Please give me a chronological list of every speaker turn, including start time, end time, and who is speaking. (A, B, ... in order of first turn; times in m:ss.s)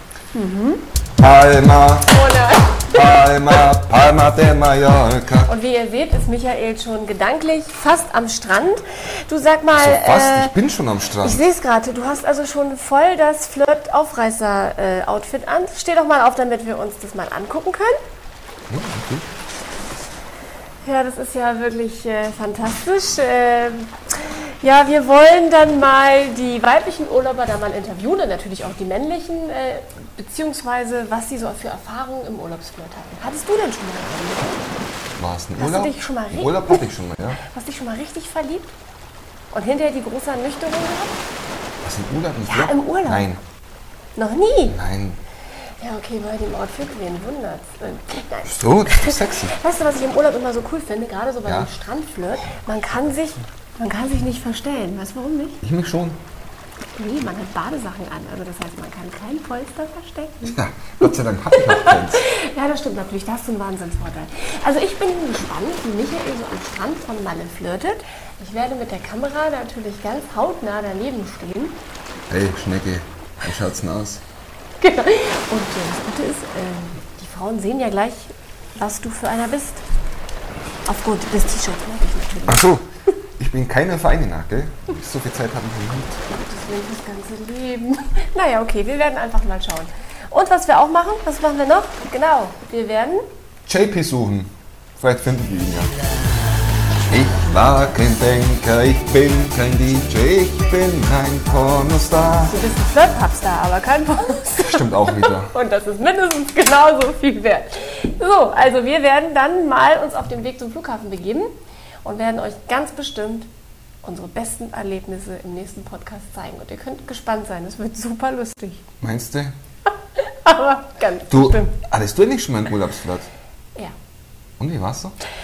0:00.3-0:00.9 A
0:01.2-0:02.2 B
0:02.1-0:03.0 A
0:02.9-0:05.5 B
0:05.5-0:10.6 A
0:09.7-0:11.4 B
0:11.2-0:18.0 A
0:18.7-0:19.3 B
0:20.8-0:34.6 A
0:35.2-0:37.4 B
0:35.6-0:38.7 A
0:39.5-0:41.2 A
0:41.8-0:43.4 B
0:42.4-0:43.3 A
0:44.2-0:44.8 A
0:44.7-0:45.2 B
0:45.8-0:55.6 A
0:48.4-0:49.6 B
0:55.6-0:56.2 B
0:57.0-1:11.8 A
1:00.4-1:02.3 B
1:12.3-1:14.2 B
1:14.8-1:19.8 A
1:20.9-1:22.6 A
1:22.4-1:22.8 B
1:23.4-1:26.2 B
1:26.3-1:33.2 A
1:33.7-1:35.9 B
1:37.1-1:42.6 B
1:42.4-1:51.5 A
1:44.6-1:45.5 B
1:52.0-1:53.5 A
1:54.0-1:58.8 A
1:59.0-1:59.5 B
2:00.2-2:01.8 A
2:01.3-2:03.3 B
2:04.6-2:05.1 B